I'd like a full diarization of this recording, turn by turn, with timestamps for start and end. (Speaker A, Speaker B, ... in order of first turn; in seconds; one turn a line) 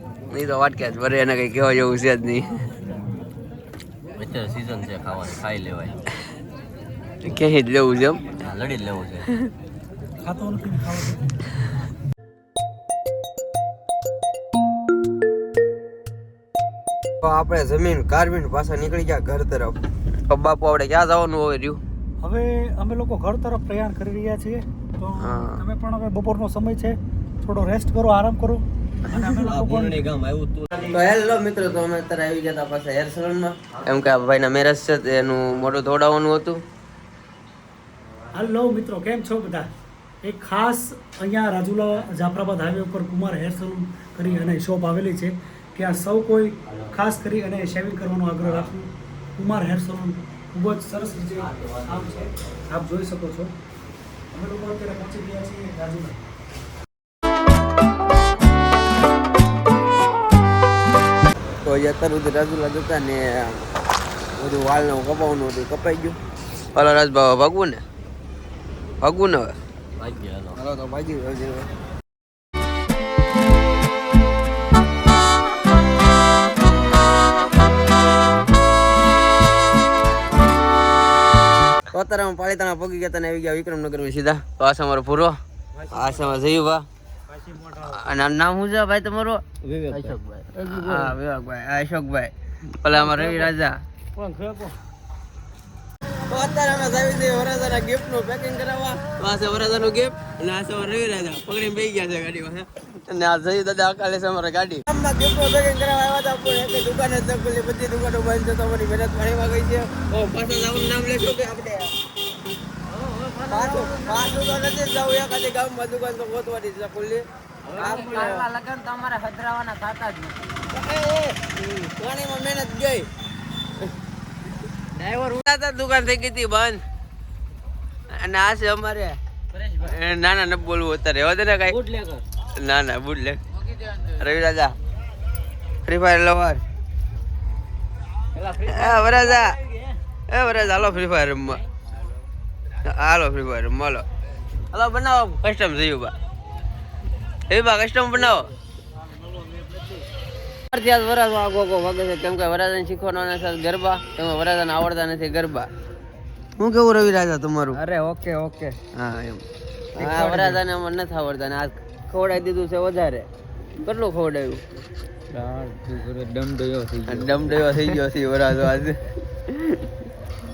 Speaker A: 0.3-2.7
Speaker B: 4.2-6.0
Speaker A: 7.2-8.3
Speaker B: 8.4-9.3
Speaker C: 10.2-11.4
Speaker A: 17.2-19.8
Speaker A: 20.3-21.8
Speaker C: 22.2-30.0
Speaker A: 25.2-25.6
Speaker B: 29.4-30.7
Speaker A: 30.8-36.6
Speaker C: 38.3-39.7
Speaker C: 40.2-53.5
Speaker C: 54.3-56.2
Speaker A: 61.6-63.7
Speaker A: 64.4-66.2
Speaker A: 66.7-67.8
Speaker A: 69.0-69.6
Speaker B: 70.0-70.6
Speaker A: 70.5-71.7
Speaker A: 81.9-85.4
Speaker A: 85.9-86.9
Speaker A: 87.8-89.4
Speaker B: 89.6-90.6
Speaker A: 90.6-93.8
Speaker C: 94.2-94.7
Speaker A: 96.3-111.9
Speaker D: 112.9-114.4
Speaker A: 113.5-123.1
Speaker D: 117.8-118.9
Speaker D: 119.7-120.4
Speaker A: 124.9-126.8
Speaker A: 128.1-131.8
Speaker D: 131.9-132.2
Speaker A: 132.4-134.8
Speaker A: 135.8-136.6
Speaker A: 138.5-139.6
Speaker A: 140.3-141.6
Speaker A: 142.8-144.1
Speaker A: 144.7-146.1
Speaker A: 147.5-148.5
Speaker D: 149.3-150.0
Speaker A: 150.7-155.7
Speaker A: 156.6-157.8
Speaker D: 157.8-158.8
Speaker B: 157.9-158.6
Speaker A: 158.9-163.3
Speaker D: 160.0-160.6
Speaker A: 163.8-164.6
Speaker B: 165.3-167.3
Speaker D: 165.3-167.0
Speaker A: 167.1-169.8